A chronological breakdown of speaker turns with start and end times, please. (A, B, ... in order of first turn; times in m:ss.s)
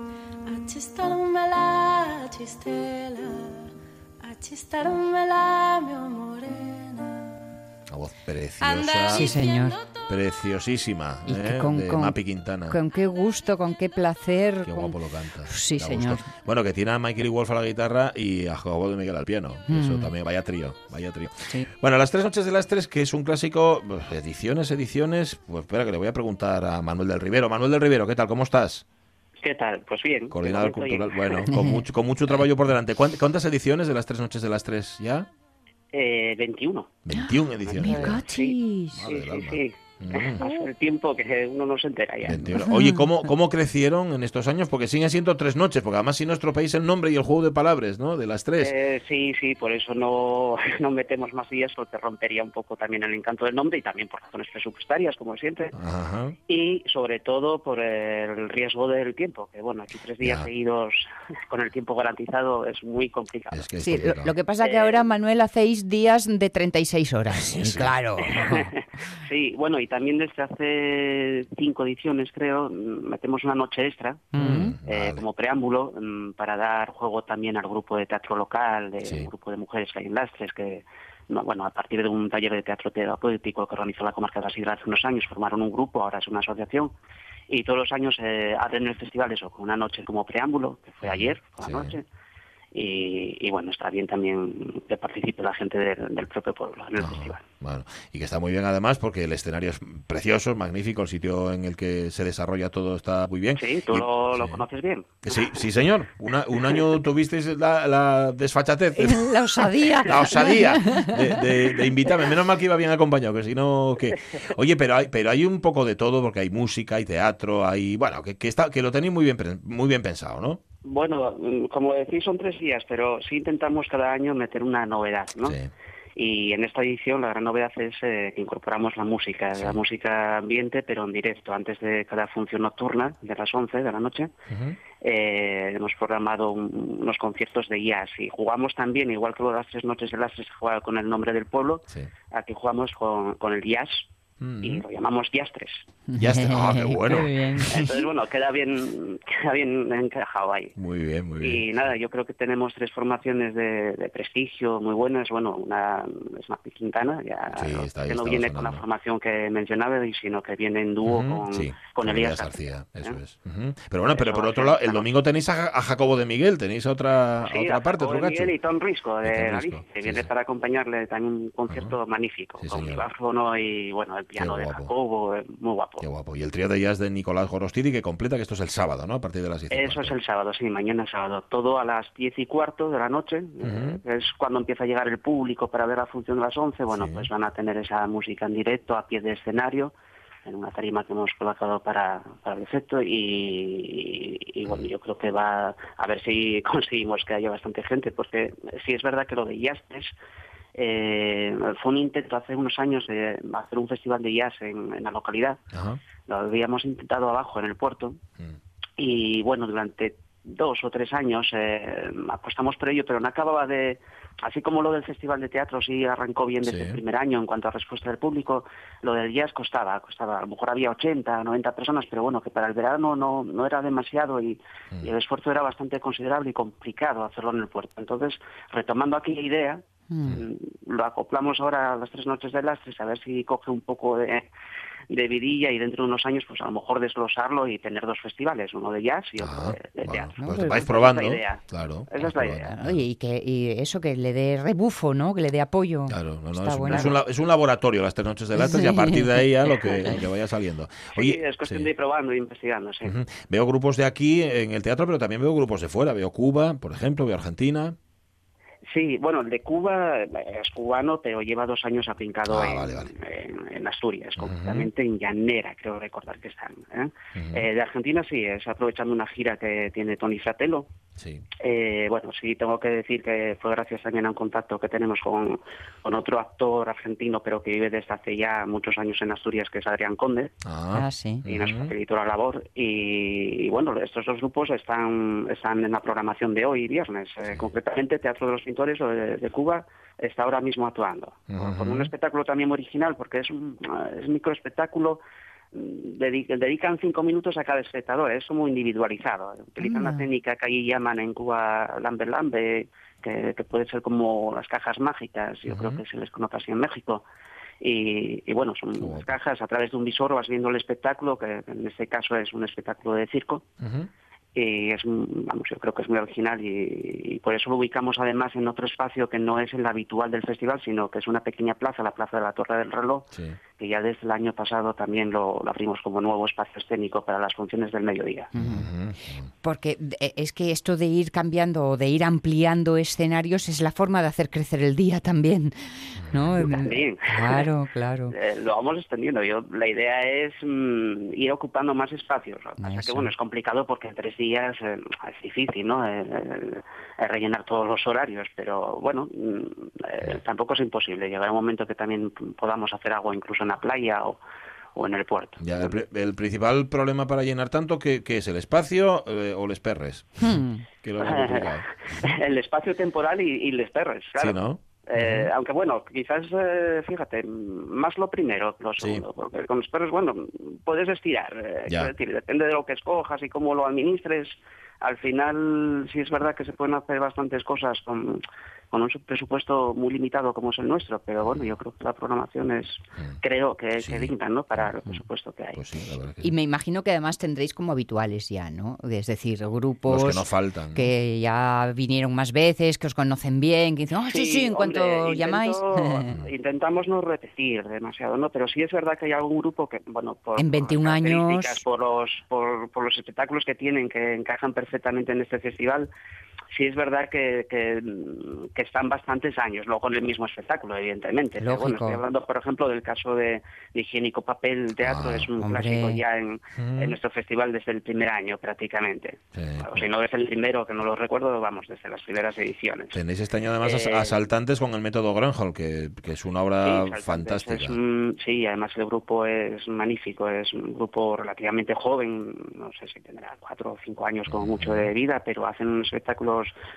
0:00.4-0:03.7 A
0:04.2-0:07.5 A
0:07.9-0:09.3 B
0:08.6-0:10.1 A
0:09.1-0:09.8 C
0:10.1-0:12.8 B
0:11.2-0:16.2 C
0:14.6-0:28.8 B
0:19.7-0:20.1 C
0:29.4-0:31.5 D
0:30.3-0:35.3 B
0:31.5-0:31.8 C
0:35.9-0:37.0 D
0:37.0-0:38.2 B
0:37.1-0:39.0 C
0:37.6-0:42.6 D
0:38.9-0:40.5 B
0:42.2-0:48.7 B
0:42.6-0:43.0 C
0:48.6-0:55.7 D
0:55.7-0:56.4 B
0:56.5-1:03.7 D
1:00.2-1:00.5 B
1:03.5-1:04.4 B
1:03.8-1:08.7 C
1:04.6-1:05.0 D
1:07.3-1:08.4 B
1:08.3-1:14.3 D
1:14.3-1:14.8 C
1:14.4-1:15.2 B
1:14.8-1:26.9 D
1:27.5-1:32.0 D
1:31.0-1:32.0 B
1:32.7-1:37.4 D
1:37.0-1:44.6 B
1:43.6-1:45.6 D
1:45.2-2:00.6 B
1:46.5-1:46.8 D
1:48.9-1:51.4 C
1:54.1-1:54.4 D
2:00.8-2:05.6 D
2:05.4-2:05.7 B
2:06.2-2:14.3 D
2:09.6-2:09.8 B
2:14.5-2:14.8 B
2:15.0-2:24.1 D
2:24.4-2:24.8 B
2:24.6-2:25.8 D
2:26.1-2:27.9 C
2:26.2-2:27.8 B
2:27.7-2:30.7 D
2:30.8-2:31.7 B
2:31.4-2:43.2 D
2:37.6-2:38.8 B
2:41.0-2:48.5 B
2:44.1-2:45.0 D
2:47.4-2:56.0 D
2:49.2-2:50.3 B
2:51.7-2:51.9 B
2:52.6-2:53.1 B
2:54.4-2:54.9 B
2:56.0-3:00.1 B
2:59.7-3:09.9 D
3:03.6-3:04.0 B
3:06.9-3:07.3 B
3:10.4-3:20.1 D
3:20.7-3:25.6 D
3:25.7-3:26.0 B
3:26.2-3:28.2 D
3:29.0-3:54.5 D
3:36.6-3:37.0 B
3:50.1-3:50.4 C
3:55.1-4:02.7 D
3:59.4-4:03.0 B
4:00.4-4:00.8 C
4:02.7-4:07.1 C
4:06.1-4:11.9 B
4:06.9-4:07.1 D
4:08.5-4:10.1 C
4:11.1-4:13.2 D
4:13.0-4:18.0 B
4:18.9-4:30.9 D
4:22.5-4:23.1 B
4:24.4-4:24.9 B
4:27.3-4:27.6 B
4:31.2-4:31.4 B
4:31.6-4:40.5 D
4:40.6-4:41.9 B
4:40.9-4:41.4 C
4:41.4-4:55.2 D
4:51.5-4:52.1 B
4:55.7-5:07.2 D
4:59.8-5:00.2 C
5:05.7-5:06.0 B
5:07.8-5:13.6 D
5:09.0-5:09.3 B
5:13.8-5:14.1 B
5:14.6-5:23.2 D
5:23.3-5:23.6 B
5:23.8-5:28.5 D
5:28.5-5:28.9 C
5:28.5-5:29.5 B
5:29.6-5:38.3 C
5:36.2-5:36.5 B
5:36.6-5:37.7 D
5:38.3-5:54.4 D
5:42.8-5:43.2 C
5:55.0-5:56.0 D
5:55.6-6:01.9 B
6:00.4-6:00.8 C
6:01.2-6:25.8 D
6:04.4-6:05.5 B
6:09.0-6:09.2 B
6:21.4-6:21.8 B
6:24.0-6:24.9 B
6:25.7-6:26.5 B
6:26.4-6:36.3 C
6:30.1-6:31.1 B
6:34.2-6:46.1 D
6:40.6-6:41.8 C
6:46.7-7:03.2 D
6:51.6-6:52.2 C
6:55.0-6:55.5 B
6:55.6-6:56.2 C
6:56.8-6:57.2 B
6:59.5-7:00.0 B
7:03.1-7:08.0 B
7:03.8-7:04.4 D
7:06.8-7:16.7 D
7:14.5-7:15.1 B